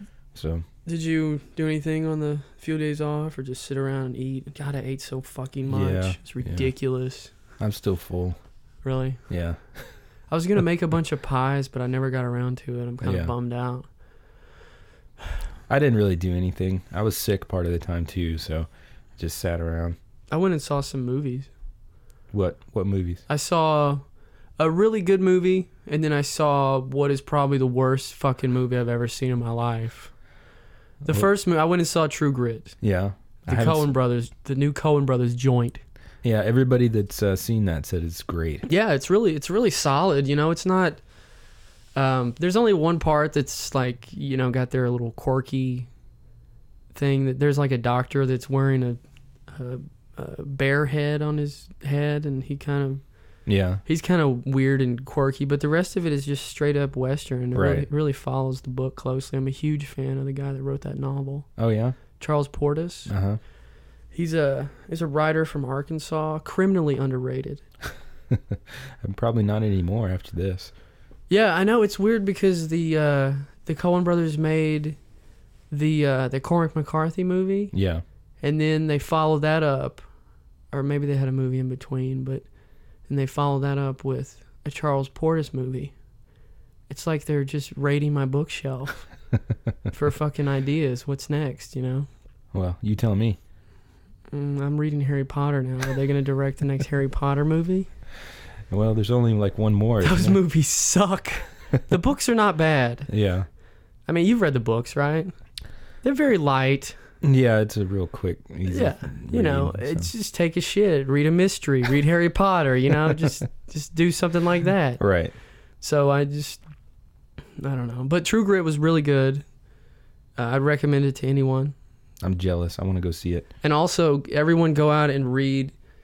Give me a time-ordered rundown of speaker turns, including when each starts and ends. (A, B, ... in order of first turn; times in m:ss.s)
0:00.3-0:00.6 A
0:00.8-0:07.3 B
0:05.7-0:06.7 A
0:07.6-0:08.4 A
0:08.8-0:09.2 B
0:09.3-0:10.0 A
0:10.3-0:13.9 B
0:13.0-0:13.3 A
0:15.7-0:20.0 A
0:20.3-0:21.5 B
0:22.3-0:23.2 A
0:23.3-0:24.0 B
0:24.6-0:30.1 B
0:31.0-0:32.8 B
0:32.8-0:33.9 A
0:33.4-0:35.8 B
0:36.2-0:38.7 A
0:38.7-0:41.0 B
0:42.0-0:45.9 B
0:46.9-0:53.0 B
0:53.5-0:53.8 A
0:53.8-1:01.5 B
0:57.5-0:57.9 A
1:01.6-1:02.0 A
1:02.1-1:03.1 B
1:03.1-1:03.4 A
1:04.1-1:07.6 B
1:08.3-1:10.7 A
1:11.3-1:15.0 B
1:15.7-1:17.7 B
1:17.7-1:18.0 A
1:18.4-1:20.1 B
1:20.7-1:22.4 B
1:23.1-1:26.0 B
1:26.9-1:29.1 B
1:29.9-1:32.1 B
1:32.5-1:33.4 A
1:34.3-1:37.9 B
1:38.7-1:40.4 A
1:40.0-1:43.1 B
1:43.1-1:43.5 A
1:44.1-1:45.3 B
1:46.0-1:47.0 B
1:47.2-1:50.1 A
1:48.7-1:55.0 B
1:55.0-1:55.4 A
1:55.8-1:56.6 B
1:57.6-1:59.4 B
2:00.4-2:01.7 B
2:02.2-2:03.5 A
2:03.6-2:05.8 B